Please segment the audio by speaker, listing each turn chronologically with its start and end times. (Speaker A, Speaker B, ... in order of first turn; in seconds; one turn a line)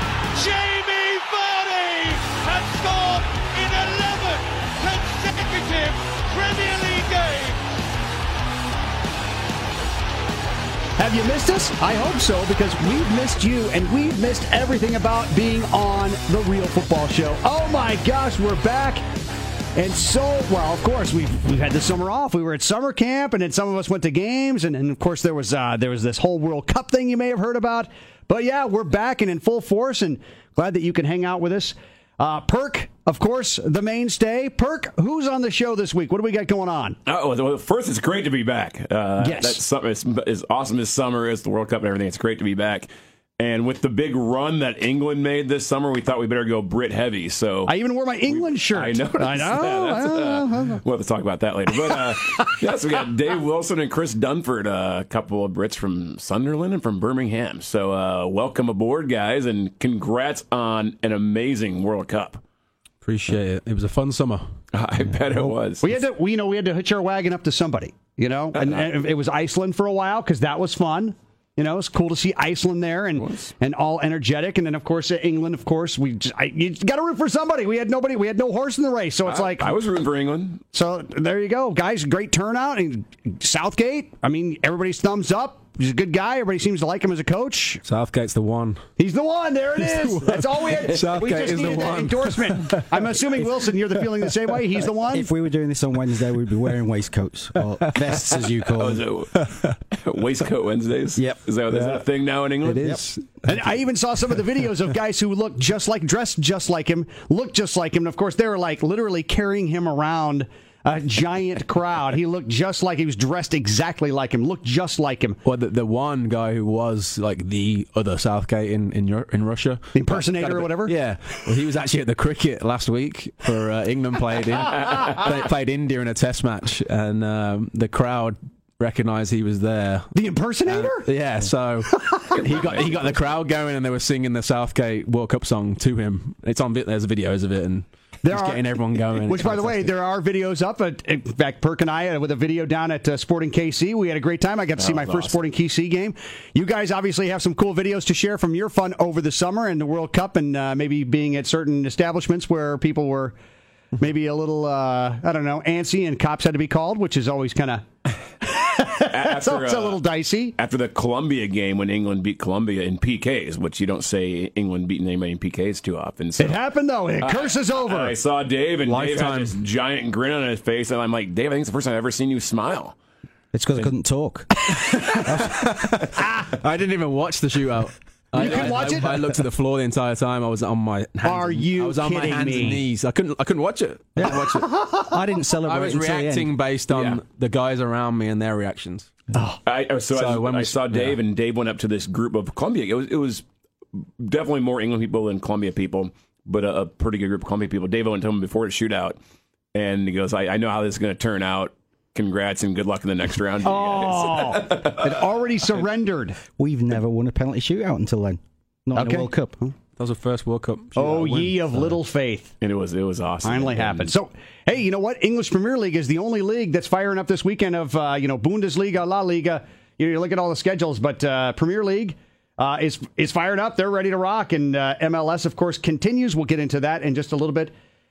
Speaker A: 0.3-7.6
Speaker B: 11.0-19.0
Speaker B: 19.8-37.0
Speaker C: 37.0-47.7
Speaker B: 39.2-39.6
Speaker B: 47.7-50.8
Speaker C: 48.3-62.4
Speaker D: 63.0-64.5
Speaker C: 64.7-65.8
Speaker B: 65.8-79.7
Speaker C: 68.6-68.8
Speaker C: 73.2-73.5
Speaker C: 79.2-80.6
Speaker B: 80.7-87.8
Speaker D: 87.8-88.8
Speaker B: 89.0-95.3
Speaker D: 89.8-92.8
Speaker E: 95.0-99.0
Speaker C: 98.3-103.0
Speaker D: 99.3-99.8
Speaker E: 101.2-101.4
Speaker D: 101.7-102.0
Speaker D: 102.6-103.7
Speaker B: 103.5-115.4
Speaker D: 115.4-130.1
Speaker B: 119.9-120.9
Speaker B: 130.1-131.1
Speaker D: 130.7-139.9
Speaker B: 131.9-132.4
Speaker C: 132.4-133.2
Speaker B: 138.2-153.3
Speaker C: 144.8-145.4
Speaker B: 154.0-157.8
Speaker B: 158.4-160.5
Speaker C: 159.0-160.0
Speaker C: 160.6-166.6
Speaker B: 166.4-168.1
Speaker C: 167.2-172.9
Speaker D: 168.8-169.6
Speaker E: 173.5-175.7
Speaker D: 175.4-184.8
Speaker B: 178.3-179.3
Speaker B: 181.2-182.8
Speaker E: 184.2-186.5
Speaker D: 185.6-189.1
Speaker C: 186.9-187.2
Speaker B: 189.3-189.6
Speaker C: 189.7-193.4
Speaker D: 190.1-191.2
Speaker C: 193.9-199.2
Speaker C: 199.7-205.3
Speaker B: 203.6-206.4
Speaker E: 206.6-209.6
Speaker B: 208.9-209.7
Speaker D: 210.0-212.0
Speaker B: 210.9-212.5
Speaker C: 212.6-214.1
Speaker B: 213.4-227.7